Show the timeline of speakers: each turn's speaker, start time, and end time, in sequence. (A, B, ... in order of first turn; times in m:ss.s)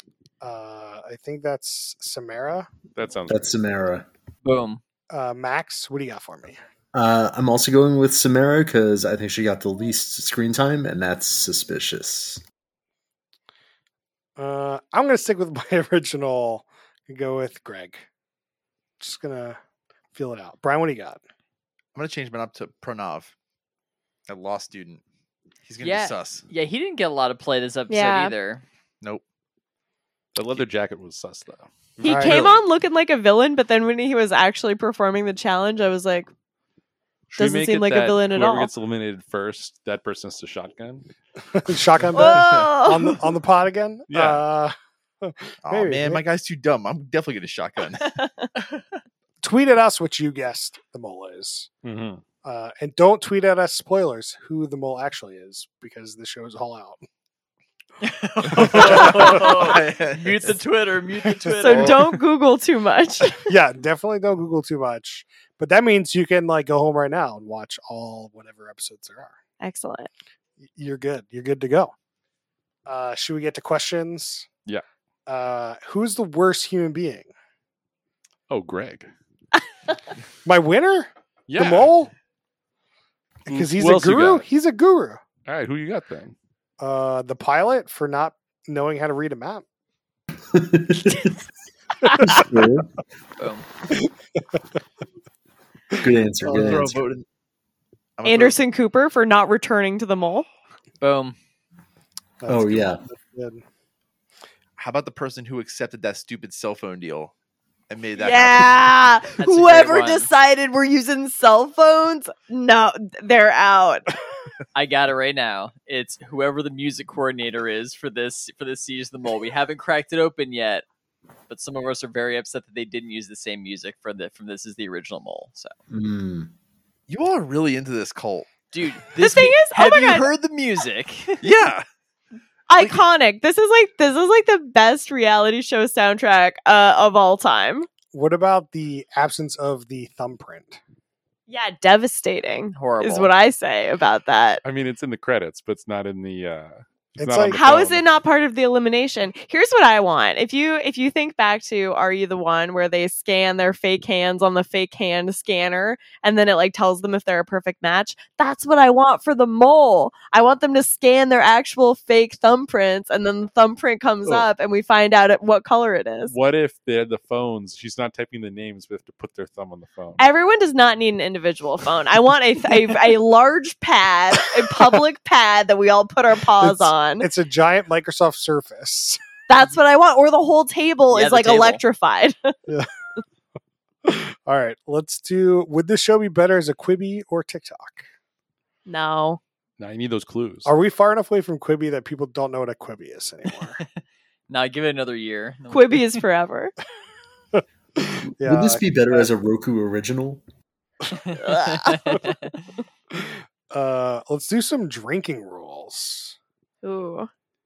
0:00.4-0:02.7 A
0:03.0-0:03.6 B
0:03.3-0:04.1 C
0:04.4-0:04.8 D
0:05.1-0:06.6 A
0:06.9-0:12.4 C
0:14.4-0:18.0 A
0:19.0-0:19.6 A
0:20.1-0:21.2 A
0:21.9-0:23.3 E
0:24.3-0:25.0 E
0:25.6-0:26.4 E
0:25.8-0:28.6 D
0:27.9-0:28.3 F
0:30.3-0:32.6 B
0:32.0-0:36.3 F
0:32.0-0:32.5 A
0:37.3-0:41.0 B
0:37.4-0:38.7 F
0:41.5-0:46.2 A
0:42.1-0:43.2 F
0:42.3-0:42.7 E
0:44.1-0:44.4 B
0:45.6-0:48.2 E
0:49.4-0:51.7 A
0:51.8-0:52.2 B
0:52.4-0:57.0 A
0:58.0-1:02.0 D
0:58.5-1:00.6 E
0:58.6-0:59.4 A
1:01.6-1:03.4 F
1:01.6-1:02.0 E
1:03.4-1:09.3 A
1:09.6-1:10.1 F
1:10.7-1:11.9 A
1:12.8-1:14.5 A
1:15.3-1:17.3 A
1:18.5-1:19.1 B
1:20.4-1:22.1 A
1:21.5-1:21.9 B
1:23.5-1:24.4 B
1:23.5-1:25.2 A
1:25.4-1:26.3 B
1:26.8-1:29.6 A
1:30.5-1:31.3 C
1:32.0-1:32.4 A
1:32.2-1:32.9 C
1:33.4-1:33.6 D
1:33.9-1:34.6 A
1:36.0-1:37.0 C
1:36.4-1:37.2 E
1:38.2-1:38.6 E
1:38.2-1:40.5 F
1:41.0-1:41.4 D
1:42.4-1:43.6 A
1:42.5-1:43.0 C
1:44.8-1:47.3 E
1:47.9-1:48.8 E
1:48.2-1:54.1 F
1:49.4-1:50.3 D
1:54.7-2:00.8 D
2:01.5-2:05.7 D
2:05.9-2:06.5 C
2:07.1-2:08.7 E
2:08.7-2:11.4 D
2:09.2-2:10.3 F
2:11.4-2:11.8 E
2:12.7-2:17.9 F
2:18.1-2:20.8 A
2:21.5-2:24.6 F
2:22.7-2:23.3 D
2:24.6-2:28.0 B
2:27.2-2:27.6 A
2:27.5-2:46.3 F
2:46.3-2:50.2 B
2:50.2-2:57.3 F
2:56.6-2:59.2 A
2:59.5-3:02.5 F
3:01.1-3:01.8 D
3:04.0-3:08.0 A
3:08.8-3:09.4 F
3:09.8-3:10.7 B
3:10.6-3:13.8 A
3:14.5-3:16.2 D
3:15.7-3:16.7 F
3:17.5-3:19.3 A
3:18.4-3:20.4 C
3:21.2-3:22.6 D
3:21.4-3:22.2 F
3:23.1-3:26.4 A
3:26.8-3:27.3 F